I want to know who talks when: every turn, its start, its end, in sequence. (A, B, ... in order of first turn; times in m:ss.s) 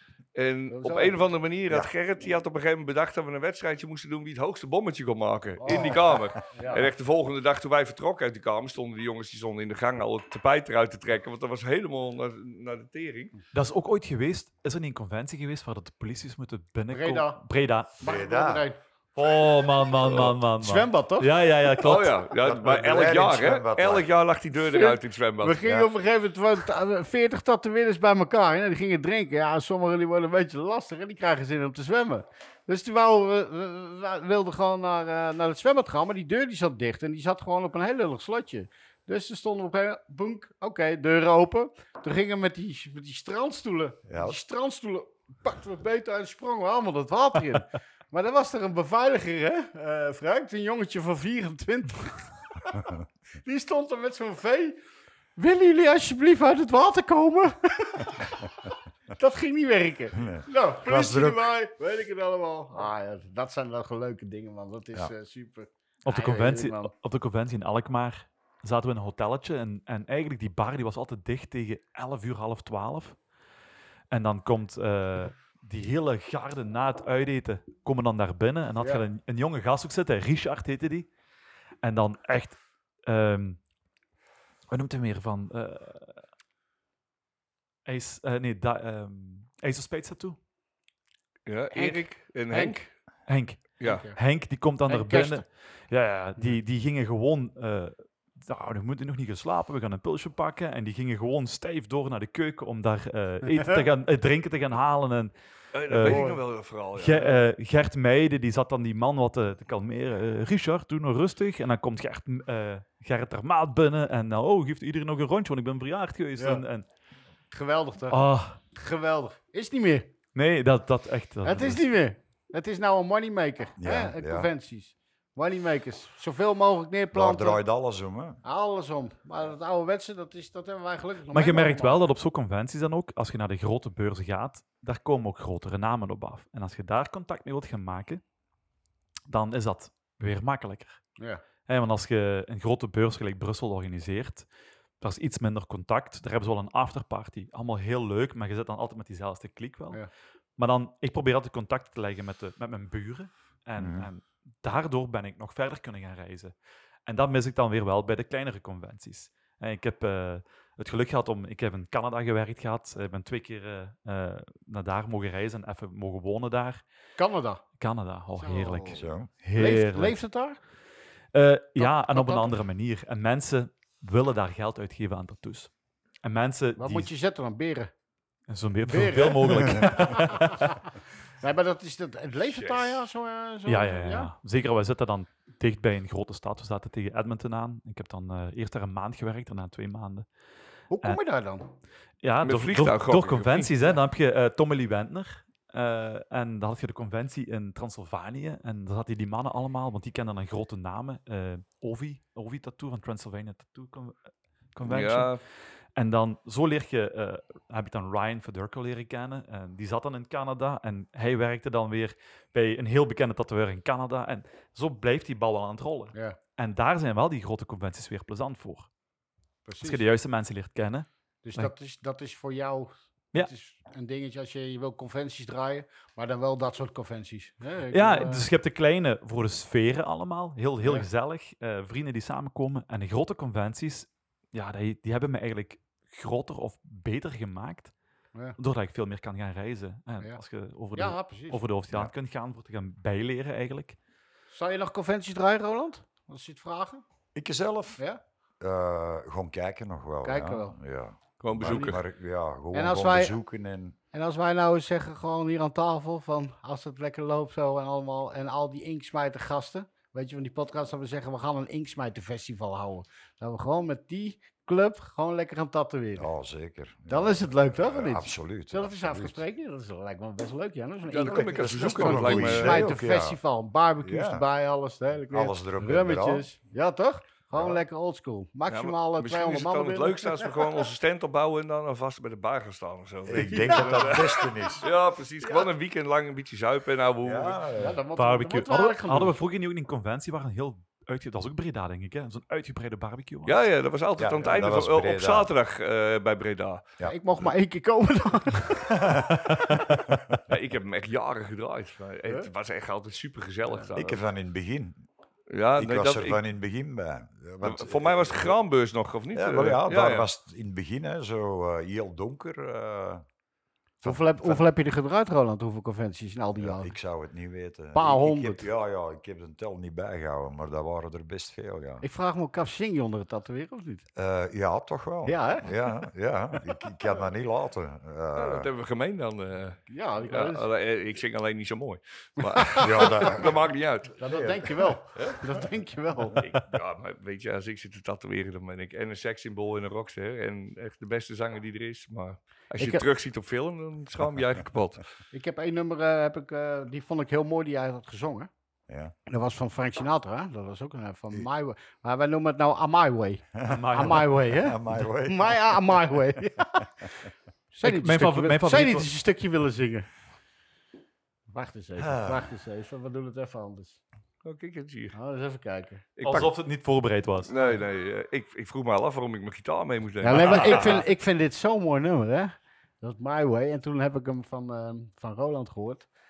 0:00.3-0:13.3 A
0:00.7-0:01.2 B
0:05.6-0:06.9 B
0:13.5-0:17.9 C
0:16.9-0:17.4 B
0:18.0-0:18.8 B
0:18.0-0:18.7 D
0:19.2-0:22.2 C
0:20.0-0:20.3 A
0:20.6-0:21.3 B
0:21.8-0:25.6 A
0:22.4-0:24.1 D
0:24.6-0:54.8 B
0:25.6-0:25.9 D
0:44.1-0:44.4 D
0:55.4-1:06.9 B
1:00.1-1:01.5 D
1:06.0-1:13.2 C
1:14.1-1:21.1 C
1:21.8-1:23.6 C
1:24.7-1:26.2 C
1:27.8-1:30.4 C
1:31.4-1:32.9 A
1:31.7-1:32.8 B
1:33.3-1:45.3 C
1:33.8-1:34.0 A
1:33.8-1:34.2 B
1:34.9-1:35.4 B
1:45.7-1:47.4 A
1:45.9-1:46.2 C
1:46.0-1:46.4 B
1:47.0-1:56.8 C
1:56.4-1:56.6 B
1:57.5-2:00.1 B
1:58.1-1:58.6 C
2:00.3-2:01.8 C
2:01.4-2:07.6 B
2:03.8-2:04.5 D
2:07.1-2:08.4 D
2:08.4-2:12.0 B
2:11.3-2:18.2 C
2:19.3-2:21.0 C
2:21.2-2:21.4 B
2:21.7-2:24.5 C
2:25.0-2:30.0 C
2:30.6-2:36.5 C
2:33.8-2:34.1 D
2:37.0-2:46.8 C
2:47.2-2:47.6 B
2:47.8-2:50.2 C
2:48.4-2:50.6 B
2:48.9-2:49.3 D
2:51.3-2:55.7 C
2:51.8-2:52.5 B
2:56.2-2:57.1 C
2:56.8-2:57.9 B
2:58.5-3:00.8 C
2:58.9-3:00.9 B
3:01.4-3:04.3 B
3:02.5-3:03.0 A
3:03.6-3:10.3 C
3:10.9-3:11.7 B
3:12.2-3:25.4 C
3:12.4-3:14.0 A
3:24.8-3:25.4 A
3:26.0-3:38.9 C
3:39.6-3:40.0 B
3:39.8-3:41.7 C
3:41.4-3:48.4 B
3:47.9-3:57.9 C
3:58.6-4:04.0 C
4:00.9-4:01.6 B
4:04.5-4:07.0 B
4:07.3-4:08.0 D
4:08.6-4:14.0 D
4:10.2-4:10.8 B
4:11.4-4:12.0 A
4:11.6-4:12.0 B
4:12.7-4:13.4 B
4:14.1-4:26.3 B
4:26.2-4:29.4 D
4:27.1-4:40.8 B
4:31.1-4:32.9 A
4:31.3-4:33.4 D
4:34.0-4:34.4 D
4:35.3-4:36.5 D
4:38.7-4:47.6 A
4:43.2-4:44.9 D
4:43.3-4:44.8 B
4:45.4-4:45.7 B
4:47.2-4:48.0 D
4:47.8-4:49.4 B
4:48.2-4:53.6 C
4:53.4-4:56.8 A
4:54.2-4:55.5 D
4:57.0-4:58.9 B
4:58.8-5:00.4 D
4:59.5-4:59.8 C
5:00.5-5:04.2 A
5:03.9-5:05.0 D
5:05.5-5:06.4 A
5:05.8-5:08.6 D
5:07.6-5:10.3 A
5:09.3-5:13.2 D
5:14.0-5:14.6 D
5:14.0-5:16.9 B
5:16.6-5:22.0 D
5:17.9-5:18.7 B
5:22.0-5:24.0 B
5:24.1-5:28.7 D
5:25.2-5:25.7 B
5:28.3-5:34.2 A
5:29.9-5:30.7 B
5:32.5-5:33.3 B
5:32.8-5:34.9 D
5:34.2-5:36.5 B
5:36.4-5:45.0 A
5:42.8-5:43.0 B
5:45.3-5:48.5 B
5:48.9-5:49.1 D
5:49.3-5:57.1 B
5:53.5-5:56.1 D
5:53.7-5:54.4 C
5:57.7-6:00.1 B
5:57.8-5:59.1 C
6:01.5-6:04.0 B
6:02.0-6:02.5 D
6:04.4-6:05.2 A
6:05.1-6:06.0 B
6:06.2-6:06.5 A
6:06.2-6:07.5 C
6:07.4-6:11.0 A
6:10.2-6:16.1 B